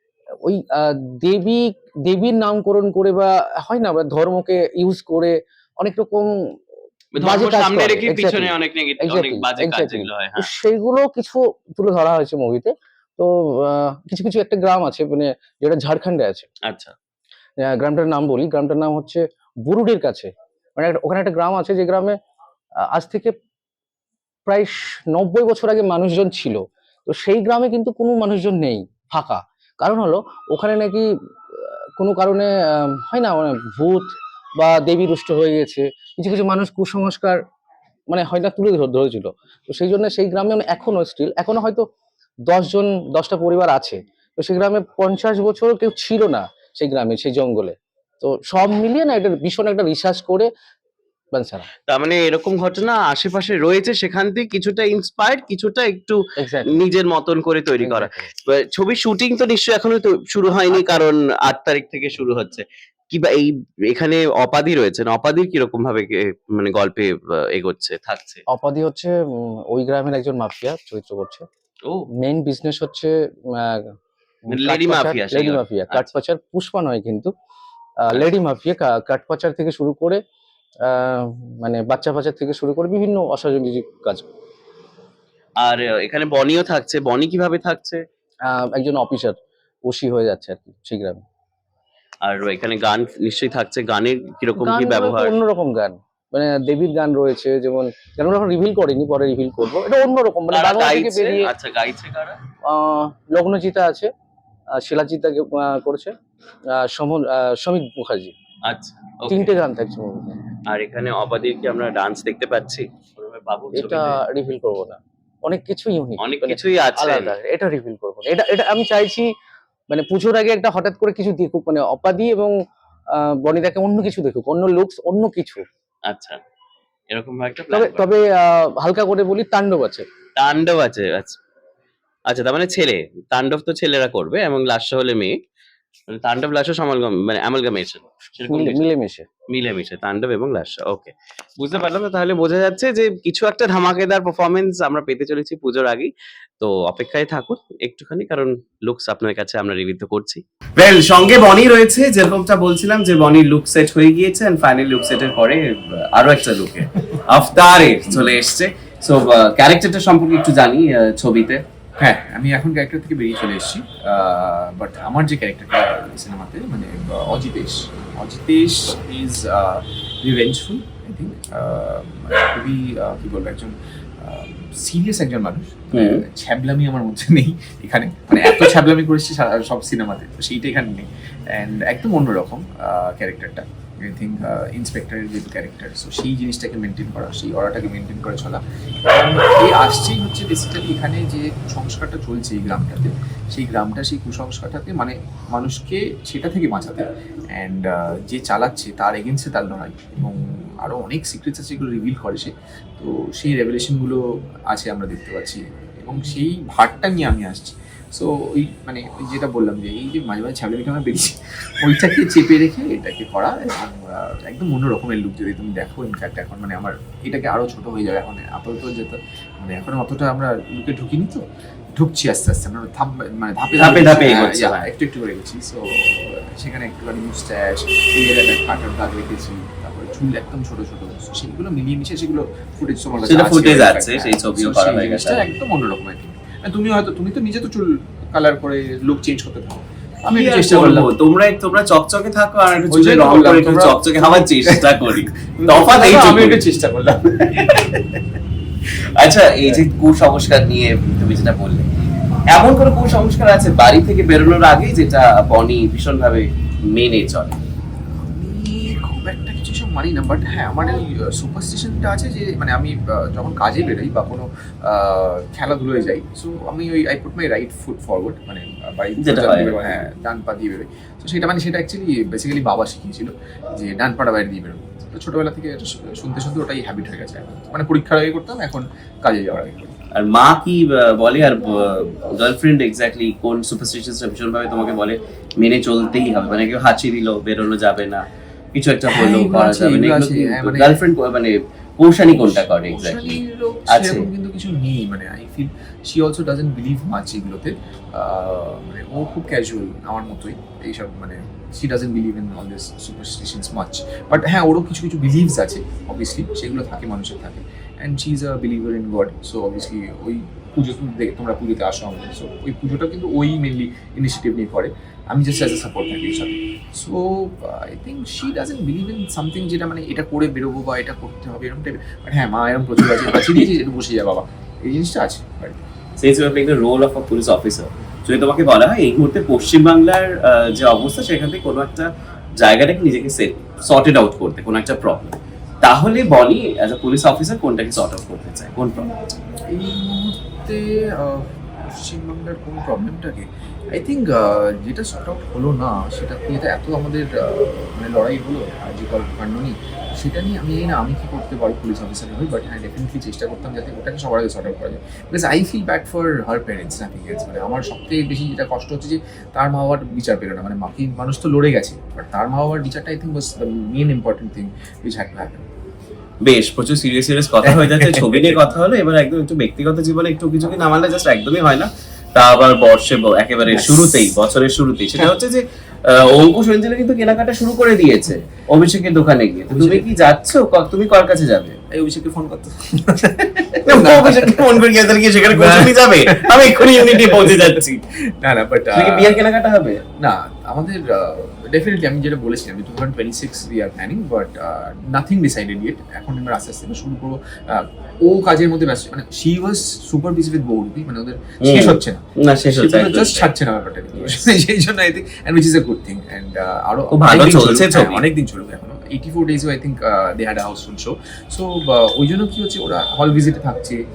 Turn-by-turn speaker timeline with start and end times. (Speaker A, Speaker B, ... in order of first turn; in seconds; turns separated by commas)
Speaker A: 0.4-6.3, Speaker B: 7.1-10.5, Speaker A: 7.2-16.4, Speaker B: 16.6-16.9, Speaker A: 17.6-22.2, Speaker A: 22.9-23.3, Speaker A: 24.5-37.4, Speaker A: 38.1-41.9, Speaker A: 42.5-50.5, Speaker A: 51.3-51.7, Speaker B: 51.9-68.4, Speaker A: 56.4-56.8, Speaker A: 57.8-58.3, Speaker A: 60.7-61.0, Speaker A: 68.5-69.1, Speaker A: 69.7-71.5, Speaker A: 72.2-73.9, Speaker B: 74.5-76.1, Speaker A: 74.5-77.3, Speaker A: 78.0-80.2, Speaker A: 80.8-84.2, Speaker B: 85.6-88.0, Speaker A: 88.5-91.2, Speaker B: 92.2-95.4, Speaker A: 94.5-101.5, Speaker B: 100.5-102.4, Speaker A: 102.7-104.1, Speaker A: 104.8-106.1, Speaker A: 106.8-108.3, Speaker B: 108.7-109.5, Speaker A: 109.3-110.4, Speaker B: 110.7-114.2, Speaker A: 113.7-119.3, Speaker B: 116.2-117.4, Speaker A: 119.9-122.5, Speaker A: 123.1-125.7, Speaker B: 126.0-126.4, Speaker B: 127.1-128.1, Speaker A: 127.7-130.1, Speaker B: 130.4-131.4, Speaker B: 132.3-135.3, Speaker B: 136.1-138.8, Speaker A: 138.5-139.3, Speaker B: 139.5-161.6, Speaker C: 162.0-221.4, Speaker B: 175.9-176.2, Speaker C: 222.0-241.1, Speaker B: 223.8-224.9, Speaker B: 233.3-235.5, Speaker B: 240.3-246.6, Speaker C: 242.9-248.0, Speaker B: 249.2-251.9, Speaker B: 252.5-257.6, Speaker C: 258.1-279.9, Speaker B: 269.2-270.1, Speaker B: 280.1-293.4, Speaker C: 289.1-291.0, Speaker C: 292.3-325.8, Speaker B: 293.9-294.3, Speaker B: 326.2-339.1, Speaker C: 339.7-365.7, Speaker B: 366.4-381.8, Speaker C: 367.7-368.6, Speaker C: 373.7-374.3, Speaker C: 379.7-380.1, Speaker C: 381.9-384.9, Speaker B: 383.9-388.0, Speaker C: 385.5-387.8, Speaker C: 388.4-389.4, Speaker B: 388.9-390.0, Speaker C: 390.2-414.0, Speaker B: 401.6-403.5, Speaker B: 404.1-404.6, Speaker B: 407.1-408.2